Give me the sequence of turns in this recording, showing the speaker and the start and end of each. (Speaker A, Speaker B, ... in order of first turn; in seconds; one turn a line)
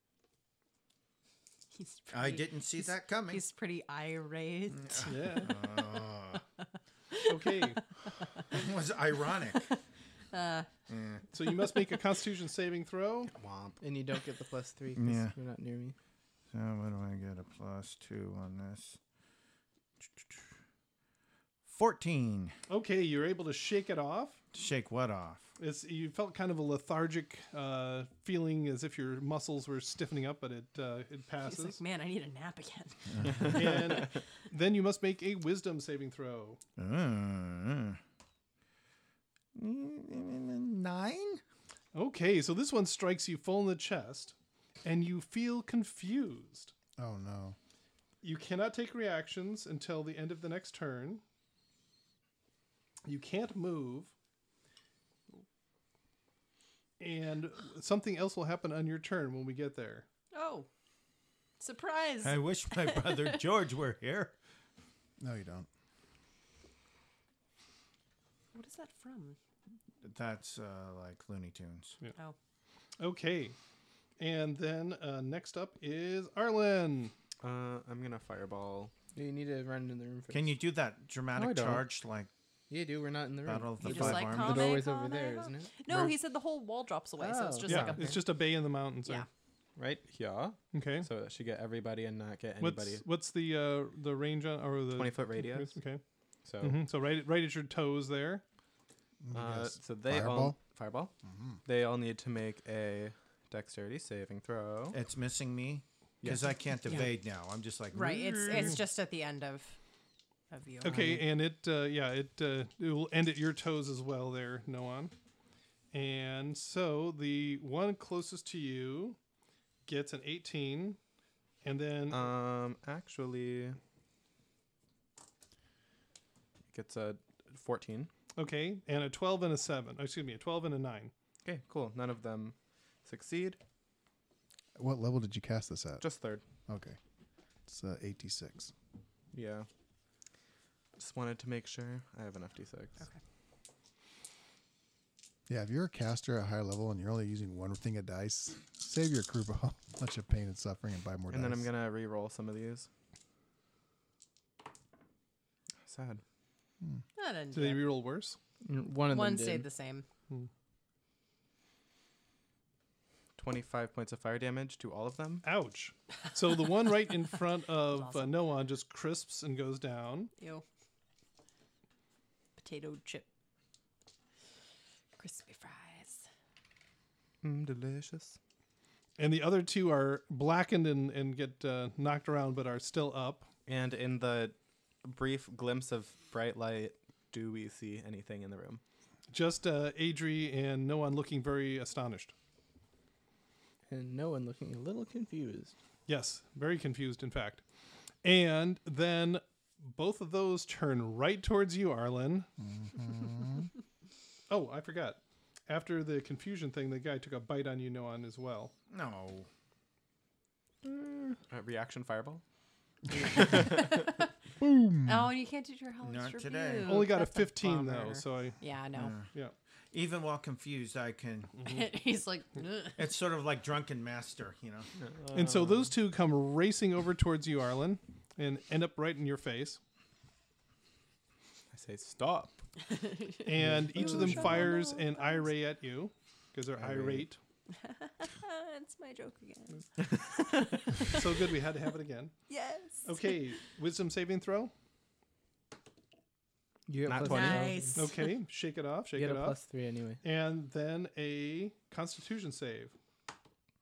Speaker A: 1.7-5.8
Speaker B: 2.1-3.4
Speaker B: 4.7-6.4
Speaker C: 5.1-5.5
Speaker A: 6.6-8.5
Speaker C: 7.3-7.8
Speaker B: 8.5-9.7
Speaker A: 9.5-9.8
Speaker A: 10.3-10.7
Speaker B: 10.9-11.2
Speaker C: 11.3-13.3
Speaker A: 11.4-12.0
Speaker D: 13.3-13.8
Speaker E: 13.8-15.9
Speaker B: 14.9-15.3
Speaker B: 16.5-19.0
Speaker B: 20.1-20.5
Speaker B: 21.7-22.5
Speaker C: 22.7-24.4
Speaker B: 24.5-25.5
Speaker C: 25.6-31.8
Speaker A: 31.4-33.4
Speaker B: 33.1-33.7
Speaker C: 33.4-36.6
Speaker B: 36.8-38.0
Speaker B: 39.5-41.4
Speaker C: 41.9-46.7
Speaker F: 47.0-47.5
Speaker C: 48.2-51.2
Speaker C: 53.0-54.1
Speaker C: 57.0-60.0
Speaker A: 60.3-60.7
Speaker A: 61.6-63.4
Speaker B: 62.2-64.3
Speaker F: 65.2-65.7
Speaker A: 68.5-69.4
Speaker B: 70.0-72.0
Speaker C: 73.0-73.5
Speaker C: 74.2-77.1
Speaker D: 77.4-78.9
Speaker E: 79.1-80.5
Speaker B: 80.3-82.3
Speaker D: 81.4-81.8
Speaker E: 82.7-86.1
Speaker B: 83.5-84.8
Speaker A: 83.8-88.3
Speaker E: 87.2-88.0
Speaker C: 87.7-89.2
Speaker D: 89.8-93.0
Speaker C: 90.7-91.1
Speaker C: 92.6-96.0
Speaker D: 94.9-95.8
Speaker D: 96.4-96.8
Speaker C: 96.6-98.4
Speaker F: 99.2-100.6
Speaker D: 99.3-101.1
Speaker F: 101.2-101.6
Speaker D: 101.6-105.0
Speaker B: 104.9-108.7
Speaker D: 106.2-106.5
Speaker A: 107.9-109.8
Speaker A: 110.5-111.2
Speaker C: 110.8-115.1
Speaker C: 115.9-119.2
Speaker C: 119.8-121.0
Speaker C: 121.6-122.3
Speaker D: 122.1-123.8
Speaker D: 126.7-128.1
Speaker C: 128.3-131.1
Speaker D: 131.4-133.6
Speaker F: 134.8-136.0
Speaker D: 136.0-136.4
Speaker F: 136.7-137.0
Speaker F: 137.7-138.7
Speaker D: 139.3-139.7
Speaker D: 141.0-143.0
Speaker F: 145.5-151.7
Speaker D: 151.3-152.9
Speaker D: 155.8-156.2
Speaker A: 157.2-157.8
Speaker C: 157.5-158.4
Speaker E: 158.6-159.7
Speaker A: 159.1-160.1
Speaker D: 163.4-165.4
Speaker C: 165.4-170.3
Speaker A: 167.9-168.3
Speaker A: 170.4-170.6
Speaker A: 172.6-173.2
Speaker A: 175.2-176.2
Speaker D: 177.4-178.4
Speaker C: 179.2-183.5
Speaker D: 183.7-188.8
Speaker C: 189.3-192.3
Speaker E: 193.9-195.7
Speaker C: 196.1-197.6
Speaker C: 198.2-202.5
Speaker F: 202.6-203.7
Speaker C: 204.5-208.7
Speaker B: 208.9-209.5
Speaker D: 210.8-212.4
Speaker D: 213.2-214.1
Speaker A: 213.3-214.2
Speaker F: 214.6-215.3
Speaker A: 215.0-219.2
Speaker B: 216.0-217.0
Speaker C: 216.8-218.6
Speaker B: 218.9-219.3
Speaker B: 219.9-221.5
Speaker C: 221.6-221.8
Speaker A: 221.6-223.0
Speaker B: 223.0-224.9
Speaker D: 225.0-225.9
Speaker C: 225.3-229.8
Speaker D: 231.7-232.6
Speaker A: 232.9-235.5
Speaker C: 233.4-237.4
Speaker D: 233.6-234.6
Speaker D: 236.8-237.2
Speaker A: 237.7-241.3
Speaker D: 240.0-240.3
Speaker C: 241.0-242.3
Speaker A: 242.5-243.5
Speaker C: 243.0-244.7
Speaker E: 246.9-248.1
Speaker D: 247.1-247.9
Speaker A: 247.2-248.3
Speaker C: 247.9-249.6
Speaker E: 249.1-250.2
Speaker C: 250.2-252.9